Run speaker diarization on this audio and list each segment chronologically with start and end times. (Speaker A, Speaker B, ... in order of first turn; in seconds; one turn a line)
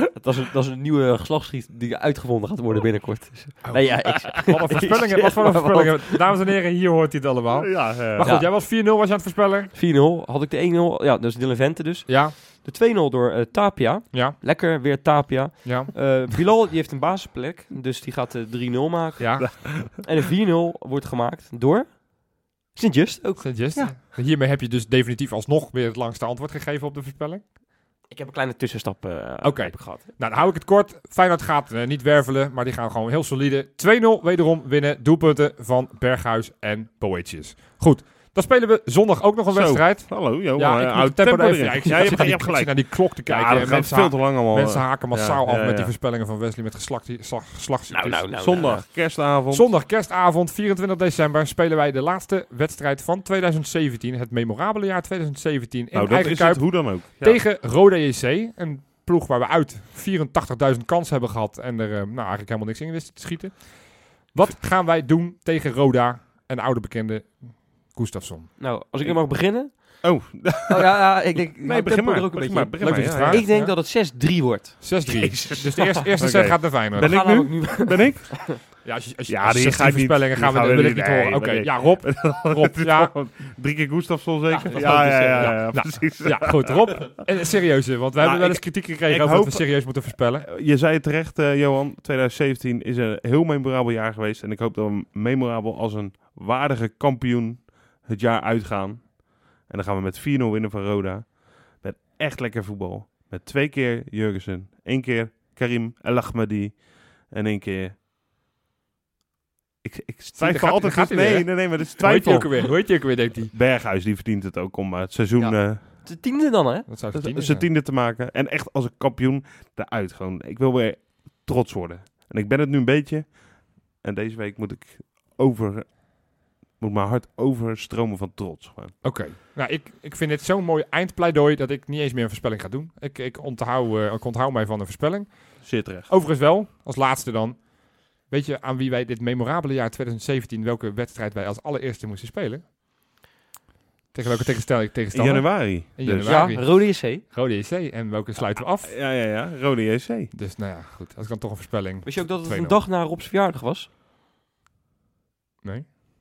Speaker A: 0.1-6.2
Speaker B: 3.6-9.7
Speaker C: 7.5-8.3
Speaker A: 8.2-8.5
Speaker A: 9.7-23.9
Speaker B: 12.1-12.3
Speaker B: 14.1-14.4
Speaker B: 15.6-16.3
Speaker B: 19.2-19.8
Speaker B: 23.4-27.5
Speaker A: 28.1-30.0
Speaker B: 29.4-68.6
Speaker C: 39.5-45.9
Speaker A: 47.9-48.8
Speaker C: 48.4-49.7
Speaker C: 55.9-57.4
Speaker A: 68.6-75.0
Speaker C: 69.0-73.5
Speaker B: 72.8-74.1
Speaker B: 74.8-77.2
Speaker C: 75.0-87.1
Speaker A: 77.0-78.6
Speaker B: 78.8-83.3
Speaker A: 84.5-85.7
Speaker B: 84.5-90.5
Speaker C: 88.2-107.9
Speaker C: 109.8-116.0
Speaker B: 110.4-113.5
Speaker A: 115.4-116.9
Speaker B: 116.9-117.7
Speaker C: 117.1-129.0
Speaker B: 129.0-142.6
Speaker C: 135.6-136.1
Speaker B: 144.1-148.9
Speaker C: 145.1-146.5
Speaker A: 146.2-147.2
Speaker C: 148.8-150.3
Speaker B: 150.3-152.8
Speaker A: 152.0-153.9
Speaker B: 155.6-155.9